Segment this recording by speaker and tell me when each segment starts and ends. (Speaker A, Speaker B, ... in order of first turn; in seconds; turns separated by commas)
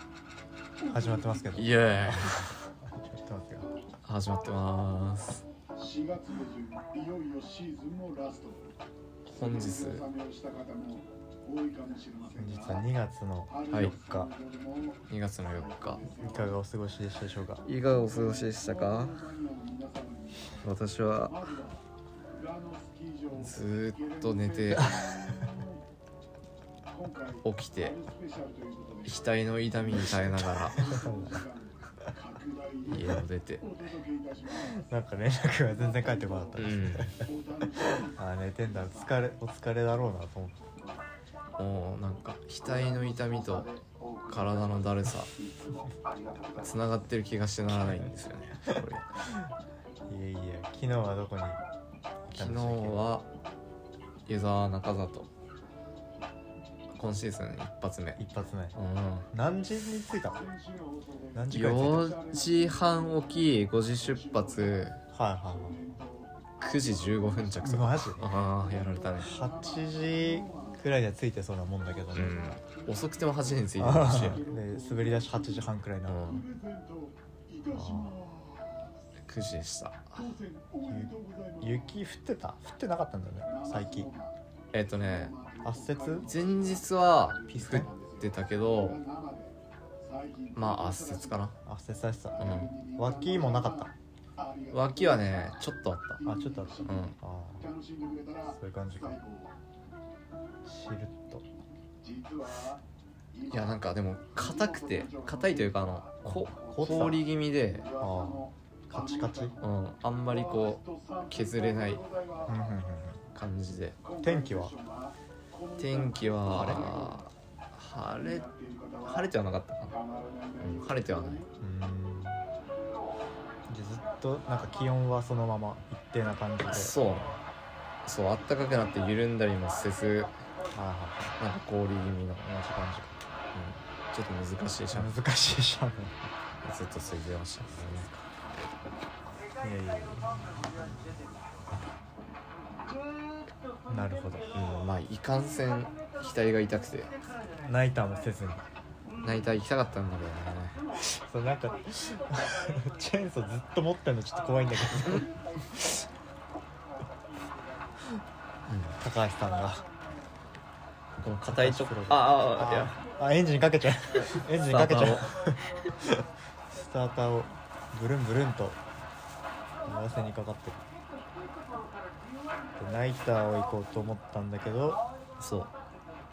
Speaker A: 0.8-1.8, Speaker B: 0.9-3.7, Speaker C: 1.6-2.5, Speaker C: 4.0-5.4, Speaker A: 5.8-8.7, Speaker C: 9.3-10.1, Speaker A: 9.3-12.9, Speaker B: 12.4-14.3, Speaker A: 13.5-16.5, Speaker C: 15.1-16.1, Speaker B: 16.2-17.6, Speaker C: 17.6-19.3, Speaker A: 17.8-20.7, Speaker C: 20.6-21.5, Speaker A: 21.2-25.8, Speaker C: 23.3-25.0, Speaker B: 24.7-25.6, Speaker A: 26.9-34.9, Speaker C: 27.4-27.9, Speaker C: 29.1-30.8, Speaker B: 30.8-31.4, Speaker C: 32.9-33.6, Speaker B: 34.6-37.3, Speaker A: 35.8-36.6, Speaker C: 36.6-37.1, Speaker A: 37.2-39.1, Speaker B: 37.9-40.7, Speaker C: 41.6-43.7, Speaker A: 42.6-46.8, Speaker C: 44.3-45.3, Speaker C: 46.6-49.0, Speaker B: 47.8-48.1, Speaker B: 48.7-49.5, Speaker B: 50.1-51.6, Speaker B: 52.2-53.1, Speaker C: 52.3-53.3, Speaker C: 54.3-55.3, Speaker C: 56.9-58.2, Speaker B: 58.2-58.8, Speaker C: 58.8-59.3, Speaker B: 59.3-60.4, Speaker A: 60.3-63.1, Speaker B: 61.3-62.1, Speaker C: 61.5-65.0, Speaker A: 64.1-64.9, Speaker B: 65.1-65.8, Speaker A: 65.5-67.9, Speaker C: 66.6-69.4, Speaker B: 67.6-68.3, Speaker A: 68.6-70.9, Speaker B: 69.2-72.4, Speaker A: 72.1-75.7, Speaker C: 72.1-74.4, Speaker B: 73.8-76.2, Speaker C: 76.1-76.5, Speaker A: 76.2-78.9, Speaker C: 77.7-78.2, Speaker C: 79.2-80.4, Speaker A: 80.2-82.0, Speaker B: 80.9-84.1, Speaker A: 83.5-91.4, Speaker C: 84.7-85.3, Speaker B: 85.6-86.3, Speaker C: 86.3-89.0, Speaker B: 87.5-87.9, Speaker C: 90.5-91.5, Speaker B: 91.7-93.9, Speaker A: 92.3-95.5, Speaker C: 92.4-92.8, Speaker C: 94.7-96.2, Speaker A: 96.2-99.5, Speaker B: 96.2-97.7, Speaker C: 96.8-97.2, Speaker B: 98.5-99.2, Speaker B: 100.6-101.4, Speaker A: 102.0-102.8, Speaker A: 103.3-109.6, Speaker C: 103.5-107.9, Speaker B: 106.2-107.2, Speaker B: 108.0-109.5, Speaker C: 109.6-112.0, Speaker A: 110.3-112.7, Speaker B: 112.5-113.2, Speaker C: 113.3-114.0, Speaker A: 114.0-117.3, Speaker B: 114.2-114.7, Speaker C: 115.8-118.5, Speaker B: 116.5-117.0, Speaker A: 118.1-119.3, Speaker C: 119.0-120.0, Speaker A: 119.9-121.5, Speaker C: 120.6-121.5, Speaker B: 121.6-122.4, Speaker B: 123.7-127.0, Speaker C: 126.7-127.4, Speaker C: 128.0-130.4, Speaker B: 130.7-131.4, Speaker C: 131.4-132.5, Speaker B: 132.4-133.2, Speaker C: 133.5-135.2, Speaker B: 134.8-136.3, Speaker C: 136.6-138.1, Speaker B: 137.7-138.3, Speaker B: 139.6-141.2, Speaker B: 143.9-144.5, Speaker C: 144.5-147.1, Speaker B: 147.6-148.6, Speaker C: 149.2-150.8, Speaker B: 151.0-156.0, Speaker C: 158.7-159.0, Speaker B: 159.0-159.8, Speaker C: 161.2-162.9, Speaker B: 161.5-168.8, Speaker C: 164.3-165.3, Speaker B: 169.8-170.8, Speaker B: 172.8-175.0, Speaker C: 175.4-175.7